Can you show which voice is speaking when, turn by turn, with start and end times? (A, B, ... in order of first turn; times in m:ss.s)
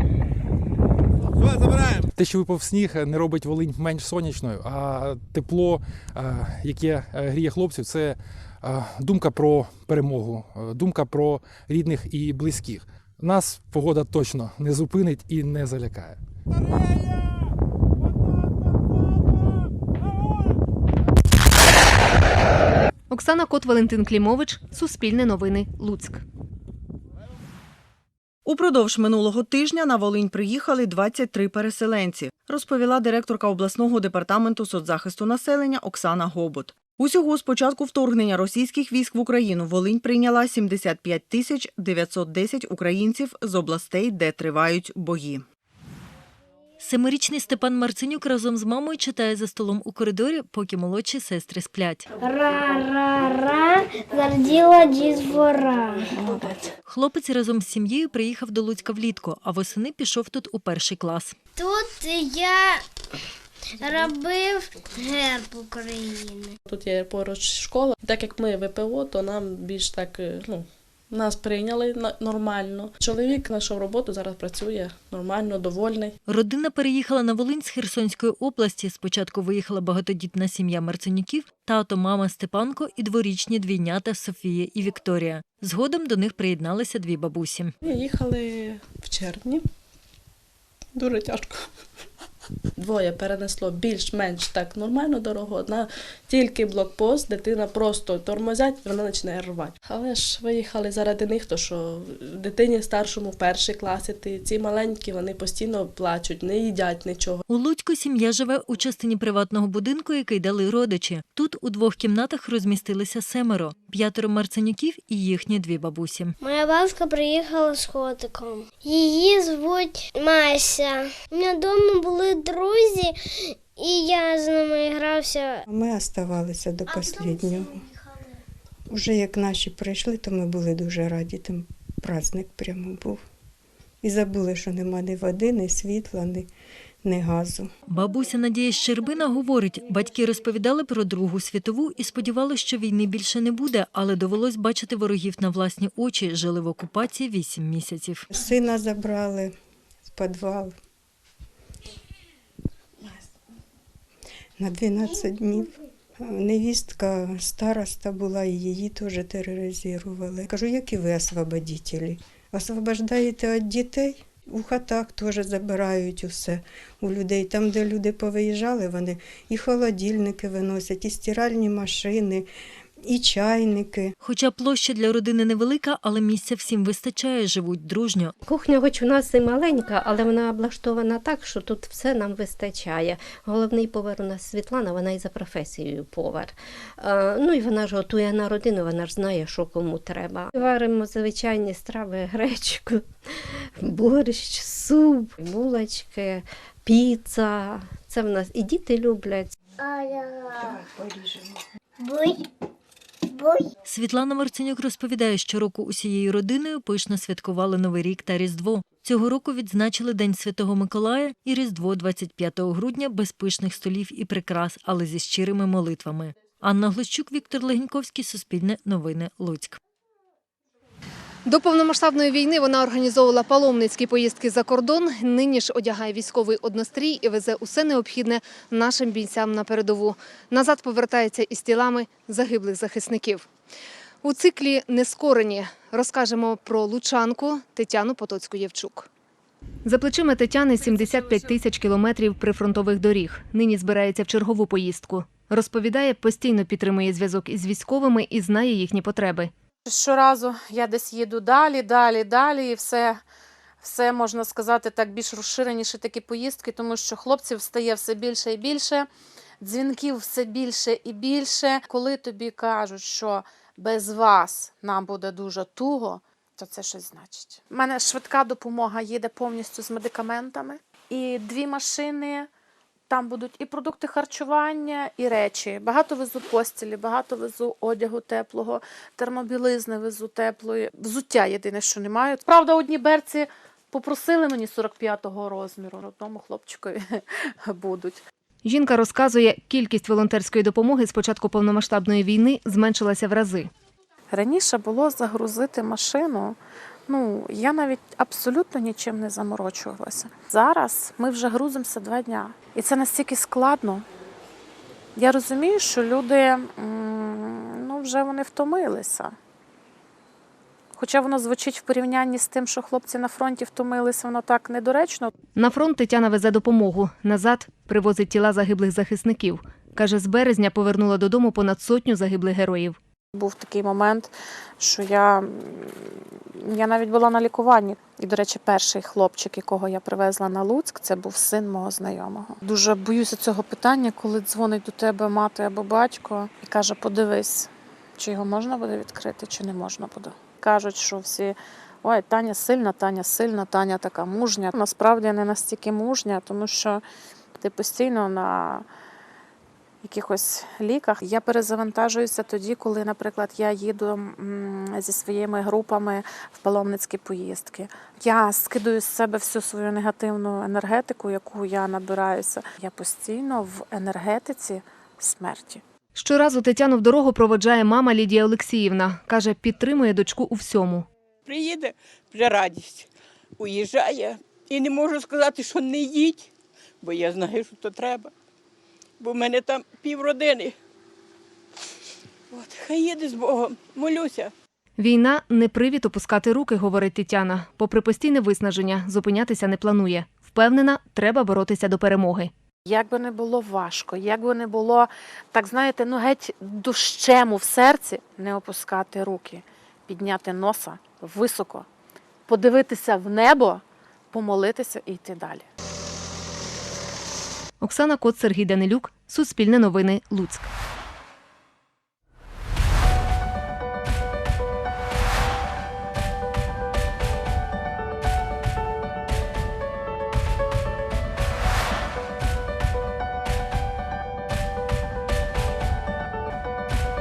0:02.2-0:16.2 A
0:23.1-0:26.2 B
0:28.5-0:45.4 C
0:46.8-0:52.1 D
0:52.2-0:56.1 E
0:56.2-0:56.7 F
0:56.9-1:01.4 D
1:01.6-1:02.8 E
1:03.8-1:06.5 E
1:06.7-1:16.2 F
1:16.3-1:27.7 D
1:27.8-1:29.6 F
1:31.0-1:31.7 F
1:32.8-1:47.4 F
1:47.5-1:56.4 D
1:56.4-2:03.2 E
2:03.8-2:05.6 E
2:05.7-2:07.8 G
2:06.9-2:07.8 E
2:08.9-2:13.2 G
2:14.0-2:16.5 G
2:17.0-2:17.7 G
2:17.9-2:28.2 D
2:28.3-2:29.5 G
2:30.1-2:30.7 G
2:34.6-2:52.5 G
2:53.0-2:54.1 G
2:54.2-2:58.3 D
2:58.4-3:13.1 H
3:13.8-3:19.6 H
3:19.8-3:20.8 E
3:22.0-3:22.4 E
3:23.3-3:23.7 E
3:23.8-3:39.8 D
3:41.5-3:53.5 B
3:54.2-3:59.1 B
3:59.8-4:09.5 B
4:09.8-4:13.2 I
4:13.8-4:19.1 I
4:19.6-4:32.5 I
4:33.1-4:48.2 I
4:48.6-4:53.7 B
4:54.3-4:56.6 I
4:57.1-5:04.0 I
5:05.2-5:09.3 I
5:11.0-5:15.3 I
5:15.6-5:23.0 B
5:23.4-5:47.0 I
5:47.6-5:48.8 I
5:50.0-6:05.8 I
6:06.2-6:11.0 B
6:11.5-6:16.5 J
6:17.0-6:18.3 J
6:19.2-6:20.8 J
6:22.5-6:24.5 J
6:25.0-6:32.5 B
6:32.9-6:41.9 I
6:42.5-6:45.7 I
6:47.8-6:50.7 B